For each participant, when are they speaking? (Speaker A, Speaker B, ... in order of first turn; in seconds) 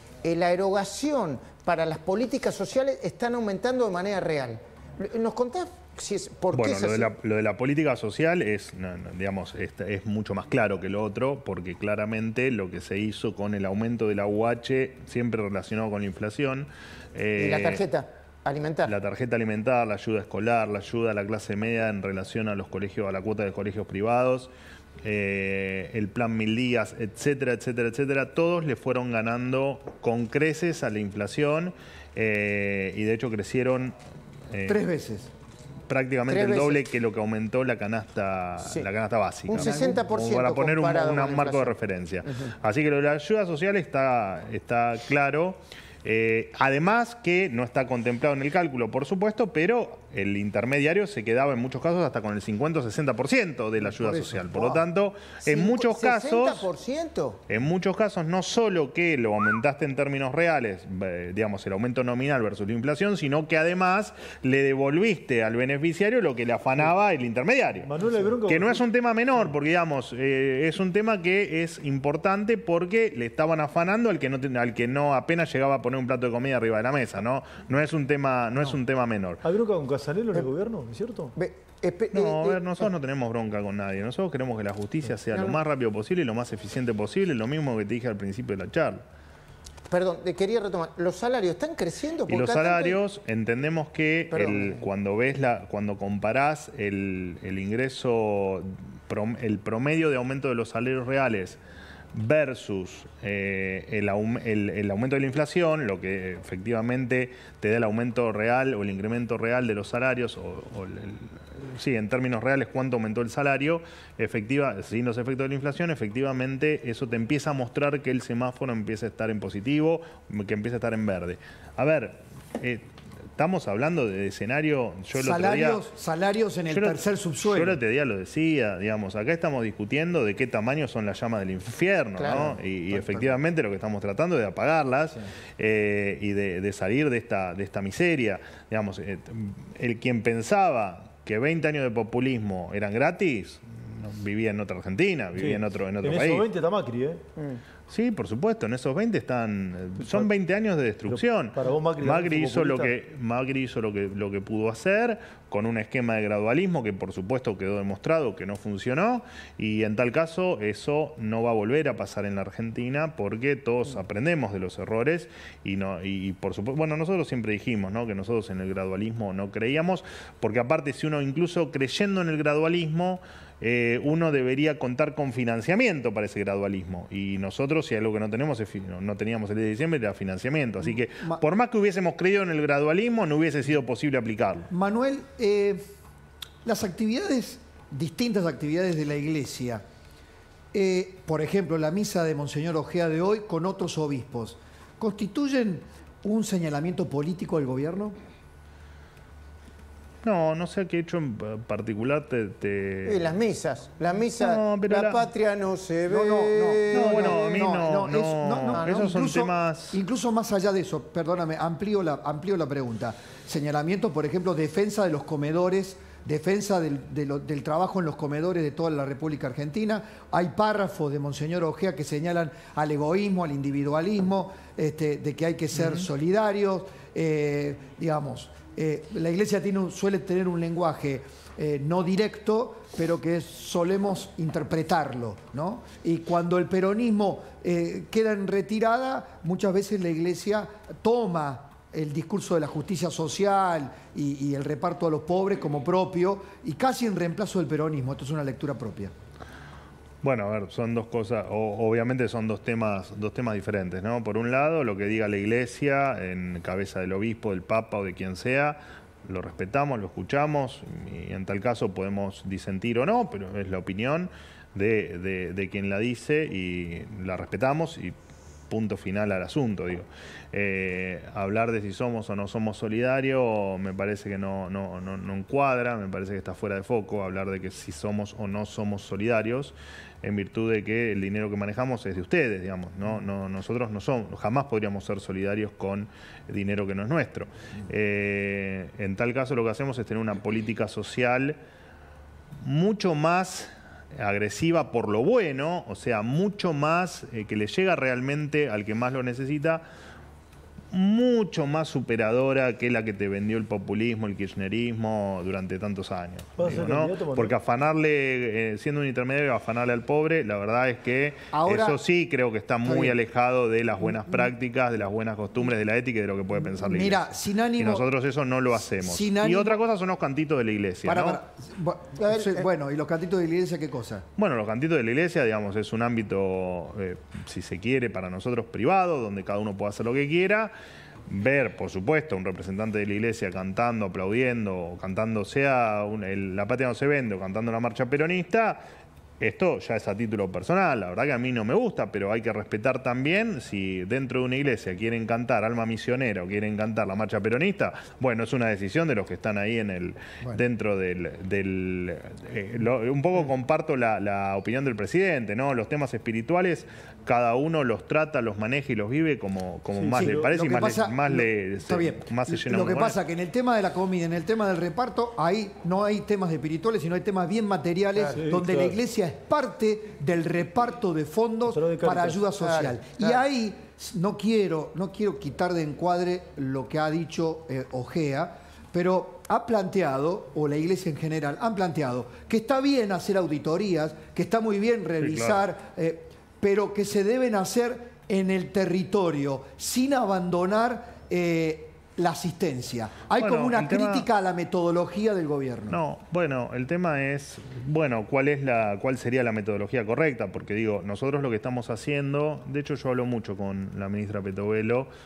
Speaker A: 0.2-7.1, 17.4-18.9, 36.3-36.8, 38.6-38.9, 39.5-41.8, 55.4-57.4, 81.3-82.9, 85.3-85.6, 89.9-93.0, 94.3-94.8, 132.2-133.3, 203.1-207.7, 208.7-209.1, 322.1-322.7, 372.6-373.4
Speaker B: 6.5-17.8, 18.9-24.5, 25.0-34.0, 34.5-34.8, 35.9-56.7, 57.5-79.4, 82.1-89.0, 92.3-101.6, 102.1-125.8, 126.7-146.4, 147.9-184.7, 200.2-203.4, 204.4-205.3, 206.9-210.0, 250.2-268.1, 268.7-291.6, 292.6-299.8, 300.9-317.3, 317.8-321.4, 324.4-330.7, 331.3-338.9, 339.4-363.2, 385.2-385.6, 393.4-394.3, 395.9-405.1
Speaker C: 34.6-35.3, 39.6-40.0, 53.8-54.8, 125.1-127.8, 184.7-185.8, 186.6-189.8, 190.7-198.2, 206.1-249.1, 311.5-312.0, 312.9-313.1, 316.6-318.0, 319.0-319.8, 321.0-324.3, 360.1-396.0
Speaker D: 67.8-68.8, 79.4-81.3, 145.4-147.2, 150.0-150.3, 151.1-152.9, 306.6-307.6, 359.9-360.4, 368.3-369.0, 371.7-372.4